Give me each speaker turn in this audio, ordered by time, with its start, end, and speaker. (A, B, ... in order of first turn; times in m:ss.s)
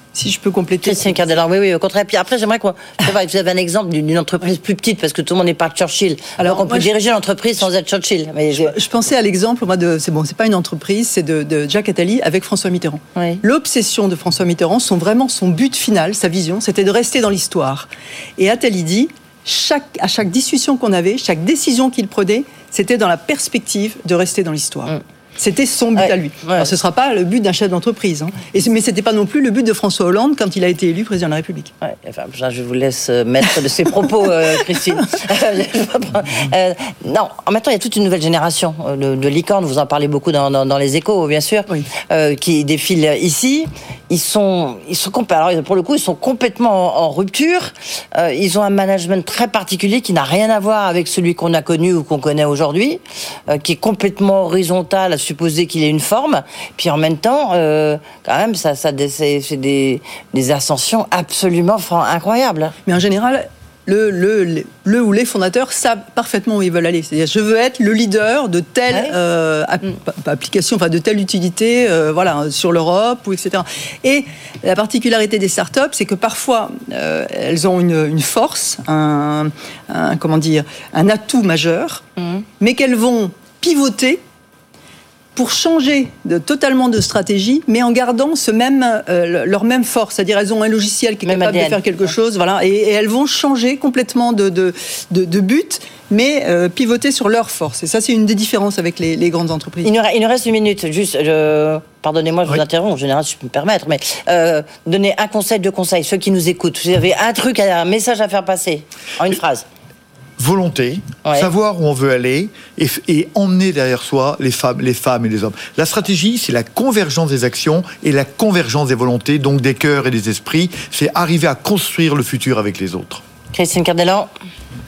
0:00.1-0:01.1 A
0:00.8-0:08.8 B
0:06.4-0:06.9 A
0:08.5-0:31.7 A
0:13.2-0:13.4 B
0:26.0-0:26.7 B
0:31.8-1:02.8 B
1:02.9-1:22.0 A
1:22.6-1:24.2 A
1:25.4-1:39.9 A
1:31.2-1:31.8 B
1:39.8-1:49.6 B
1:50.4-2:03.2 C
1:51.2-1:51.5 B
2:03.5-2:04.3 B